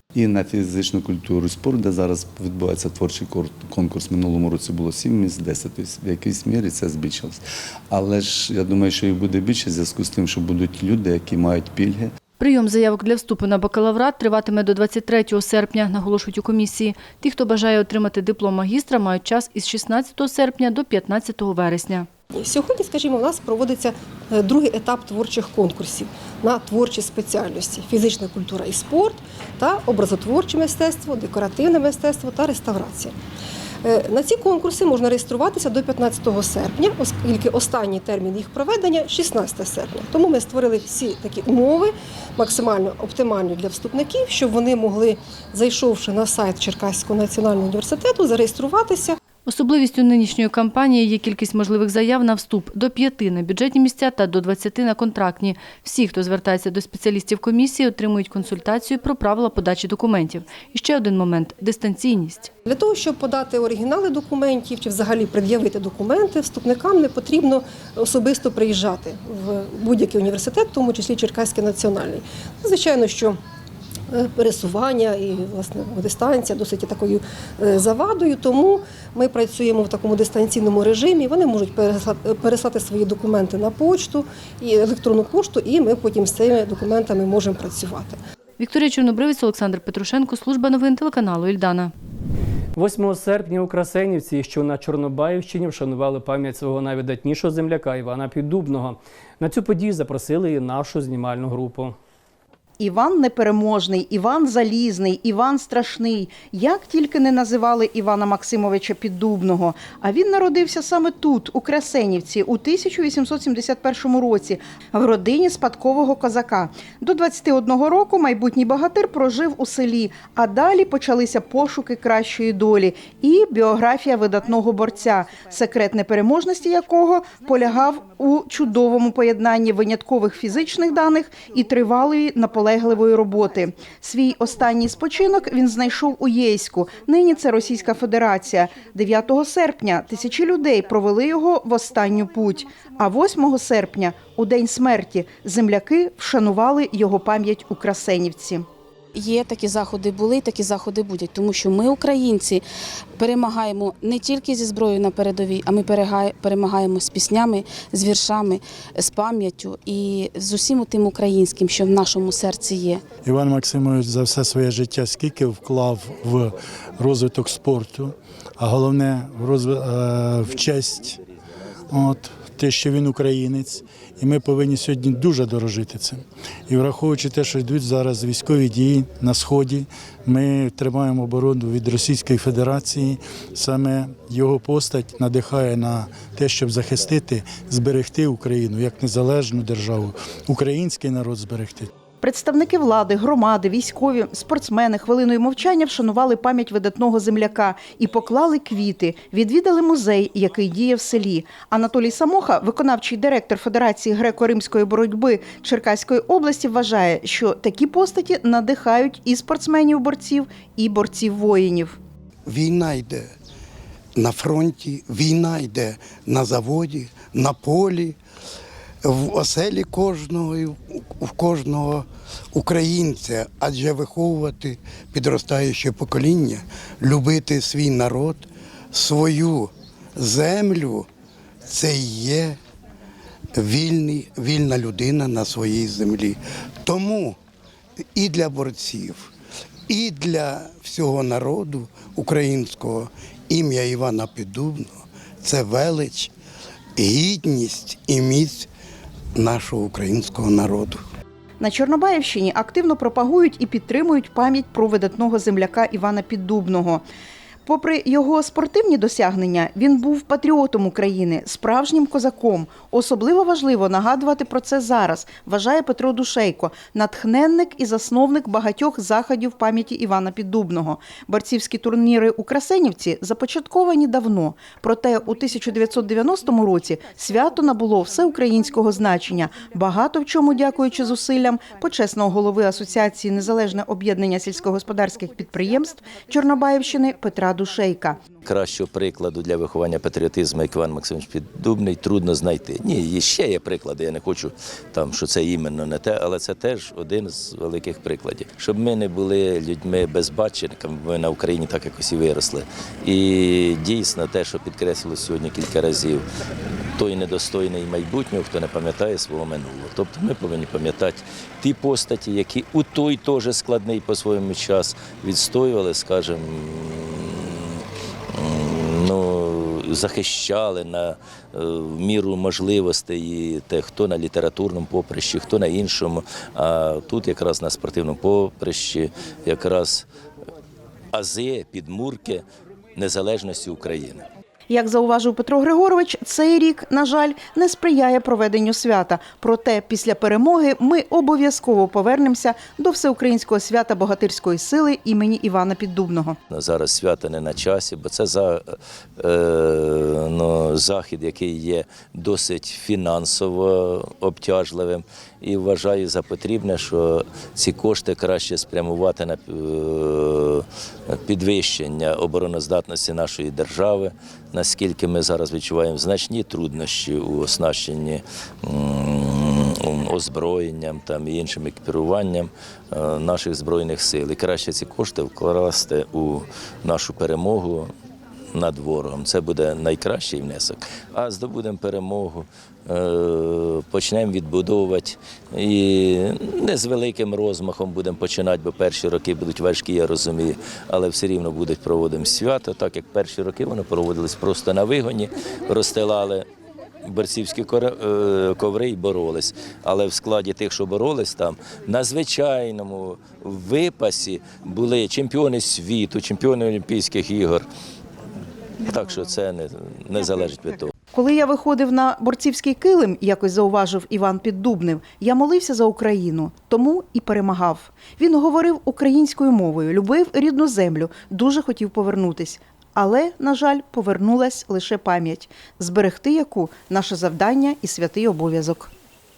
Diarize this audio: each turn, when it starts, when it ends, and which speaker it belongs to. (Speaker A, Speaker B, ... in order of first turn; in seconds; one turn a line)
Speaker A: 0.1-12.1
Speaker B: 12.4-22.1
Speaker C: 22.3-33.1
Speaker C: 33.8-49.2
Speaker B: 49.5-62.5
Speaker C: 62.6-73.4
Speaker C: 74.1-88.2
Speaker B: 88.6-91.9
Speaker D: 92.7-102.0
Speaker E: 102.8-148.6
Speaker F: 149.1-152.6
Speaker F: 153.2-163.0
Speaker G: 163.2-171.2
Speaker G: 171.9-191.9
Speaker E: 192.2-212.0
Speaker H: 212.4-213.3
Speaker H: 214.2-218.2
Speaker H: 219.0-231.1
Speaker H: 231.7-232.6
Speaker H: 233.5-237.4
Speaker H: 238.1-239.3
Speaker H: 239.9-246.3
Speaker H: 247.0-248.7
Speaker H: 249.3-251.0
Speaker E: 251.6-257.0
Speaker E: 257.6-288.2
Speaker I: 288.4-306.2
Speaker I: 306.9-317.8
Speaker I: 318.3-330.1
Speaker I: 331.1-332.4
Speaker I: 332.9-334.3
Speaker E: 334.7-346.4
Speaker I: 346.5-377.9
Speaker I: 378.5-396.4
Speaker I: 397.0-407.6
Speaker I: 408.8-410.9
Speaker E: 411.1-428.9